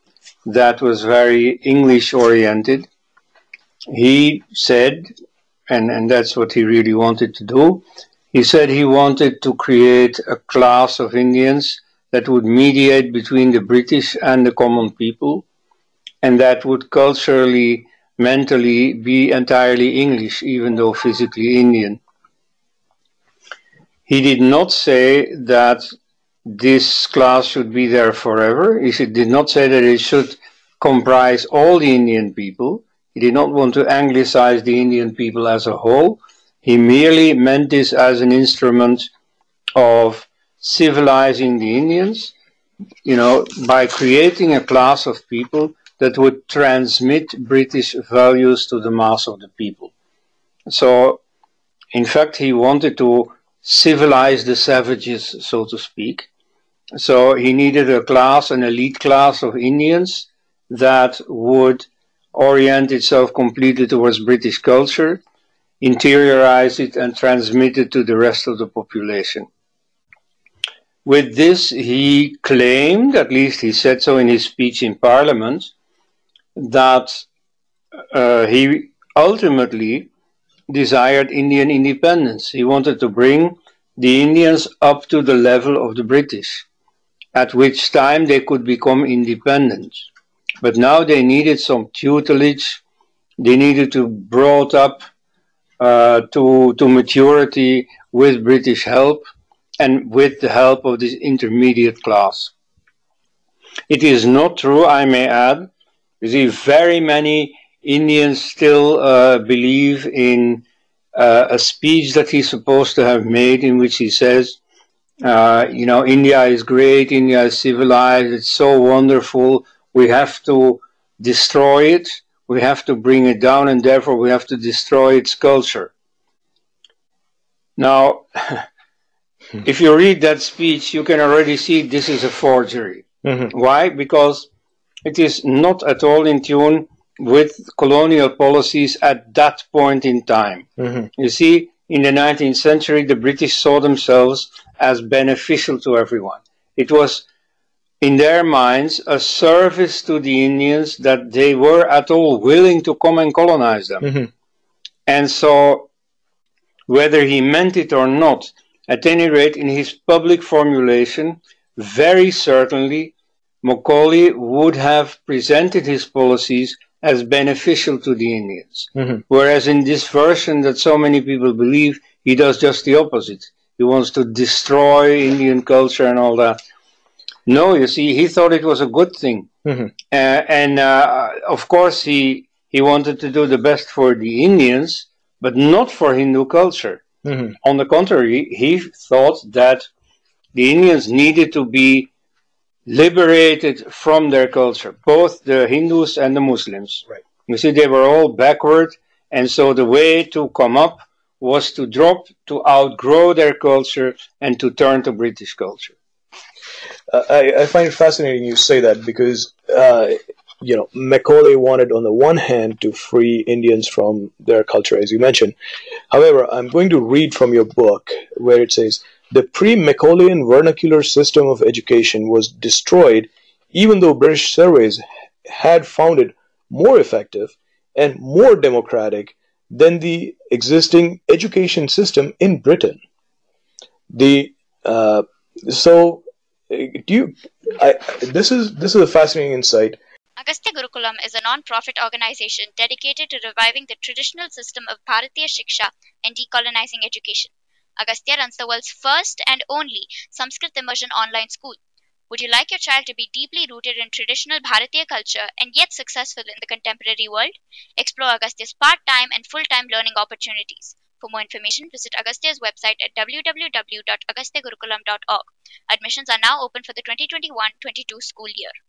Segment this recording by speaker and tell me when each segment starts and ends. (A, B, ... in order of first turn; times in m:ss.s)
0:00.4-0:02.9 A
0:03.9-0:05.1 A
0:05.7-0:15.4 A
0:16.2-0:22.0 A
0:24.1-0:25.8 A
0:26.5-0:39.1 A
0:39.8-0:42.3 A
0:43.0-0:49.9 A
0:50.7-0:51.2 A
0:51.9-0:56.3 A
0:57.0-1:05.2 A
1:05.8-1:09.5 A
1:11.0-1:15.7 A
1:16.6-1:17.3 A
1:18.1-1:20.1 A
1:20.7-1:26.7 A
1:27.3-1:30.1 A
1:30.6-1:32.8 A
1:33.4-1:35.0 A
1:35.8-1:39.2 A
1:39.8-1:42.5 A
1:43.9-1:45.7 A
1:46.2-1:54.6 A
1:55.2-2:05.9 A
2:07.8-2:08.7 A
2:09.6-2:14.5 A
2:13.2-2:13.5 B
2:15.0-2:20.7 A
2:20.8-2:21.1 B
2:21.2-2:27.2 A
2:28.0-2:34.2 A
2:35.1-2:35.9 A
2:36.9-2:56.6 A
2:57.5-2:59.5 A
2:59.7-2:59.9 B
3:00.1-3:07.0 A
3:07.2-3:07.6 B
3:07.6-3:09.9 A
3:10.5-3:12.1 A
3:12.9-3:26.0 A
3:27.1-3:35.6 B
3:36.1-3:53.0 B
3:54.1-4:00.0 B
4:00.4-4:11.8 C
4:12.3-4:28.7 C